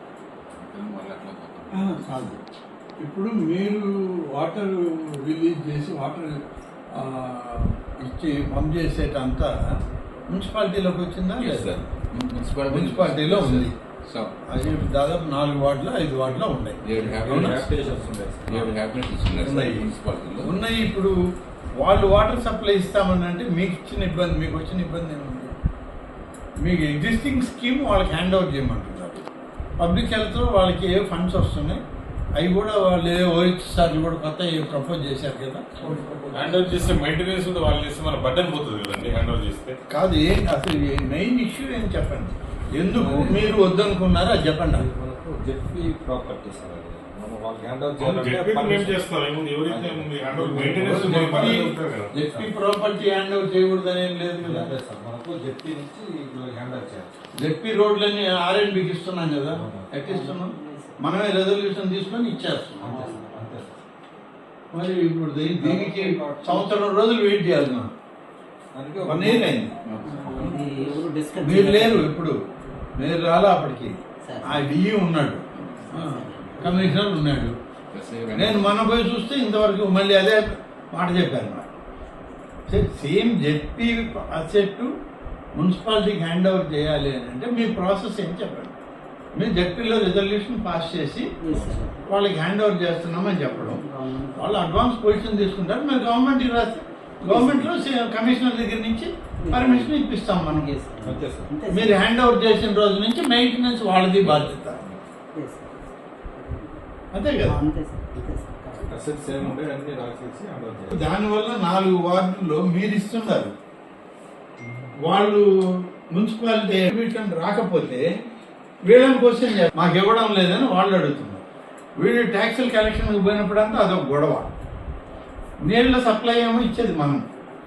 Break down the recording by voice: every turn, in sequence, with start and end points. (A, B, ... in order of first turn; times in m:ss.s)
0:00.5-0:02.4 A
0:01.7-0:02.4 B
0:03.0-0:06.4 B
0:07.0-0:09.5 B
0:10.3-0:11.8 B
0:11.4-0:14.8 A
0:12.7-0:13.7 B
0:14.5-0:17.6 B
0:16.8-0:20.5 A
0:17.2-0:18.9 C
0:19.3-0:21.2 B
0:21.8-0:25.5 B
0:26.6-0:29.2 B
0:29.8-0:31.8 B
0:32.4-0:36.0 B
0:35.9-0:37.0 C
0:36.3-0:39.8 D
0:39.9-0:44.9 B
0:42.9-0:43.5 A
0:44.7-0:49.0 C
0:48.0-0:52.2 D
0:49.7-0:51.7 C
0:50.8-0:54.7 B
0:54.4-0:57.1 C
0:57.4-1:03.0 B
0:59.5-1:00.0 C
1:00.1-1:01.0 E
1:02.8-1:03.8 C
1:03.0-1:03.3 E
1:04.7-1:07.9 B
1:05.6-1:06.7 C
1:08.7-1:09.7 C
1:09.0-1:09.7 B
1:09.8-1:10.6 A
1:10.0-1:12.0 E
1:11.4-1:12.4 B
1:13.0-1:17.6 B
1:14.2-1:14.6 E
1:15.6-1:15.9 A
1:16.0-1:16.8 E
1:17.9-1:18.7 A
1:18.3-1:21.7 B
1:22.7-1:24.9 B
1:25.6-1:28.8 B
1:29.4-1:31.3 B
1:31.4-1:32.0 E
1:32.1-1:33.8 B
1:33.3-1:34.6 E
1:34.4-1:40.7 B
1:37.3-1:37.7 E
1:39.4-1:39.9 E
1:40.5-1:42.0 E
1:41.0-1:41.5 C
1:41.7-1:44.8 B
1:44.2-1:45.0 C
1:45.3-1:46.8 E
1:47.1-1:47.6 B
1:47.4-1:49.0 E
1:48.8-1:51.0 C
1:50.9-1:53.5 B
1:55.0-1:55.5 B
1:56.1-1:58.0 B
1:58.9-2:01.4 B
2:02.0-2:04.5 B
2:05.7-2:07.3 B